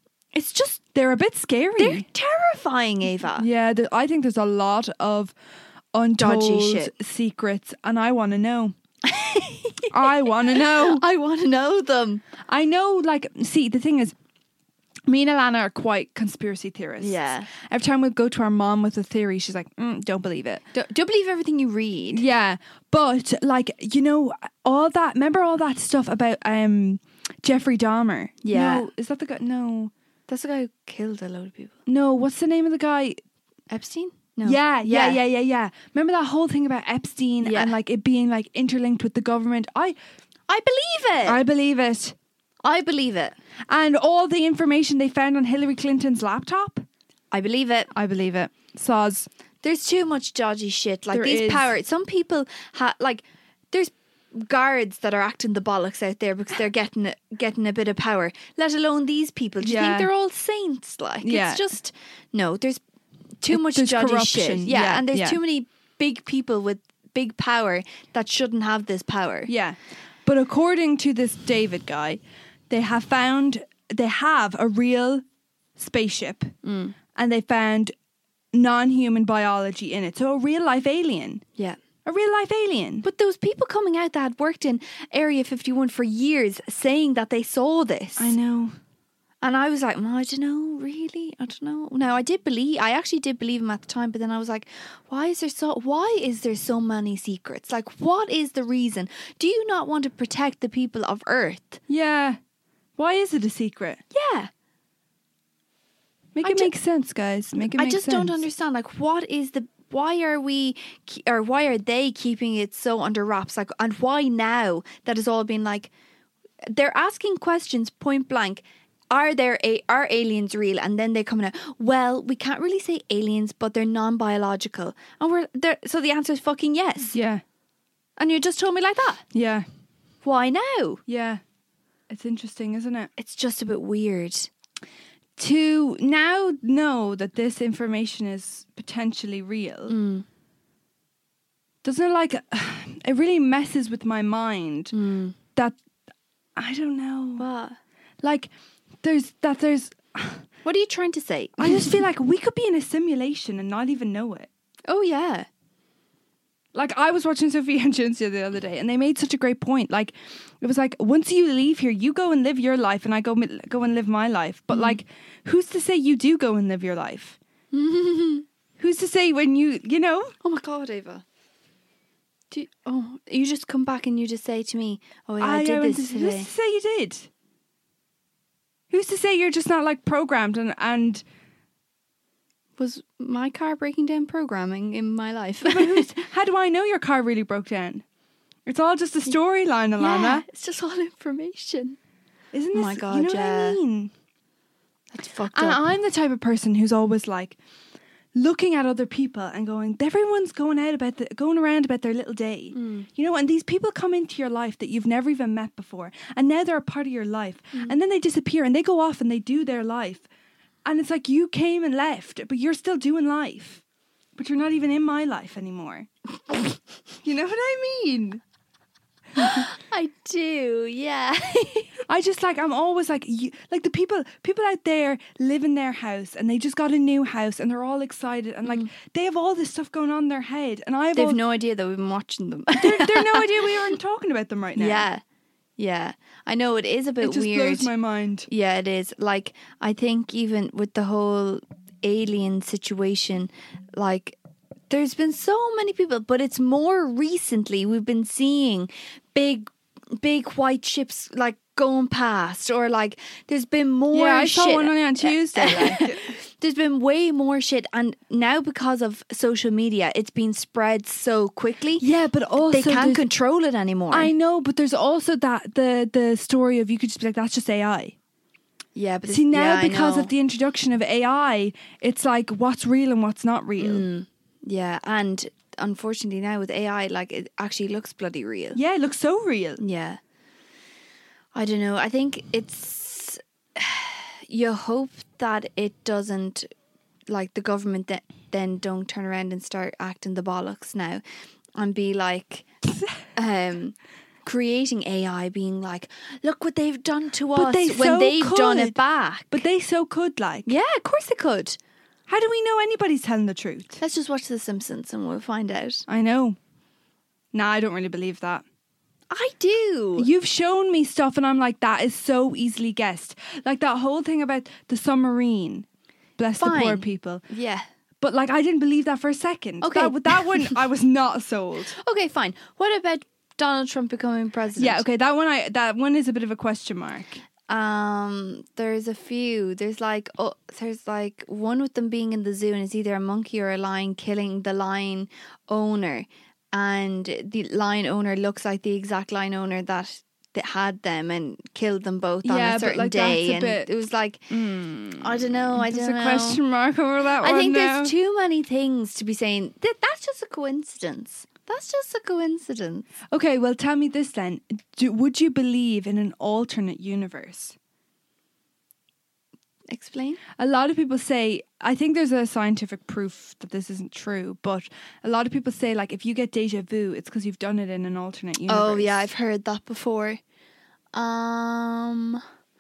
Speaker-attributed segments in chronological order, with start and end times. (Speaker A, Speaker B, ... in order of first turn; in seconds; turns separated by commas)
Speaker A: 0.3-0.8, Speaker B: 0.9-2.1, Speaker A: 1.8-3.5, Speaker B: 3.4-5.3, Speaker B: 5.9-8.8, Speaker A: 6.2-6.9, Speaker A: 9.0-12.2, Speaker B: 9.9-11.0, Speaker B: 12.4-14.1, Speaker B: 15.1-20.6, Speaker A: 17.0-17.5, Speaker A: 20.7-22.2, Speaker B: 22.1-29.9, Speaker A: 28.4-28.9, Speaker A: 30.3-31.8, Speaker B: 31.9-33.2, Speaker A: 33.7-35.2, Speaker B: 34.4-40.0, Speaker A: 37.4-37.8, Speaker A: 40.5-41.4, Speaker B: 41.3-42.1, Speaker A: 42.6-43.4, Speaker B: 43.7-46.9, Speaker A: 47.3-47.9, Speaker B: 47.9-49.3, Speaker A: 49.6-62.8, Speaker B: 51.1-51.7, Speaker B: 59.6-60.1, Speaker B: 61.2-61.6, Speaker A: 63.4-69.5, Speaker B: 63.5-65.4, Speaker B: 69.5-75.2, Speaker B: 75.8-76.5, Speaker A: 76.6-77.0, Speaker B: 77.2-77.9, Speaker B: 78.5-81.4, Speaker B: 82.0-83.0, Speaker A: 83.0-88.4, Speaker B: 88.2-88.8, Speaker A: 89.4-101.8, Speaker B: 101.9-102.4, Speaker B: 103.0-104.0, Speaker A: 104.1-104.5, Speaker B: 106.3-108.5, Speaker A: 106.4-106.7, Speaker A: 107.8-115.9, Speaker A: 116.7-127.2, Speaker B: 127.1-127.4, Speaker A: 128.2-129.2, Speaker B: 129.3-129.7, Speaker A: 130.2-131.0, Speaker B: 131.1-131.4, Speaker B: 132.1-133.1, Speaker A: 133.2-134.5, Speaker B: 135.4-139.9, Speaker A: 139.9-140.2, Speaker B: 141.8-144.9, Speaker A: 144.9-145.4, Speaker B: 146.6-147.4, Speaker A: 147.4-147.8, Speaker B: 148.2-148.5, Speaker B: 149.0-150.5, Speaker A: 150.6-152.0, Speaker B: 151.6-154.5, Speaker A: 154.9-155.5, Speaker B: 156.7-167.4, Speaker A: 164.7-165.0, Speaker A: 167.7-168.5, Speaker B: 168.8-170.3, Speaker A: 170.4-171.2, Speaker A: 172.5-176.5, Speaker B: 175.4-177.3, Speaker B: 178.9-181.2, Speaker A: 182.8-186.2, Speaker B: 185.6-188.0, Speaker B: 188.7-190.5, Speaker A: 190.0-192.0, Speaker B: 192.5-194.1, Speaker A: 192.7-193.8, Speaker A: 195.1-195.9, Speaker B: 195.5-197.6, Speaker B: 198.3-210.2, Speaker A: 202.7-203.1, Speaker B: 210.8-213.8, Speaker B: 214.4-216.6, Speaker B: 217.2-218.4, Speaker B: 219.4-219.7, Speaker A: 219.4-222.0, Speaker B: 222.1-231.4, Speaker A: 231.2-233.8, Speaker B: 232.8-235.1, Speaker A: 234.8-235.2, Speaker A: 235.8-237.9, Speaker B: 237.2-238.5, Speaker A: 238.5-244.4, Speaker A: 244.9-262.1, Speaker B: 254.1-256.3, Speaker B: 262.0-263.2, Speaker A: 262.7-264.3, Speaker B: 264.1-268.1, Speaker A: 268.9-270.3, Speaker B: 269.3-274.1, Speaker A: 273.8-278.8, Speaker B: 278.8-279.8, Speaker A: 279.8-280.2, Speaker A: 281.6-286.7, Speaker A: 287.3-291.2, Speaker A: 291.8-292.7, Speaker B: 292.8-293.2, Speaker A: 293.4-299.6, Speaker B: 297.5-299.0, Speaker B: 299.5-300.7, Speaker A: 300.7-301.8, Speaker B: 302.3-304.0, Speaker A: 304.0-306.1, Speaker B: 306.1-306.6, Speaker B: 307.5-308.6, Speaker A: 309.3-310.3, Speaker B: 310.2-315.9, Speaker B: 316.4-317.4, Speaker A: 316.6-317.9, Speaker B: 318.2-321.9, Speaker A: 319.8-320.8, Speaker A: 321.9-325.0, Speaker B: 324.8-327.4, Speaker A: 327.7-344.5, Speaker B: 342.4-343.9, Speaker B: 344.5-348.1, Speaker A: 345.2-346.6, Speaker A: 347.4-353.1, Speaker B: 353.3-357.8, Speaker A: 359.9-360.4, Speaker B: 360.6-369.3, Speaker A: 368.7-370.4, Speaker A: 371.1-372.4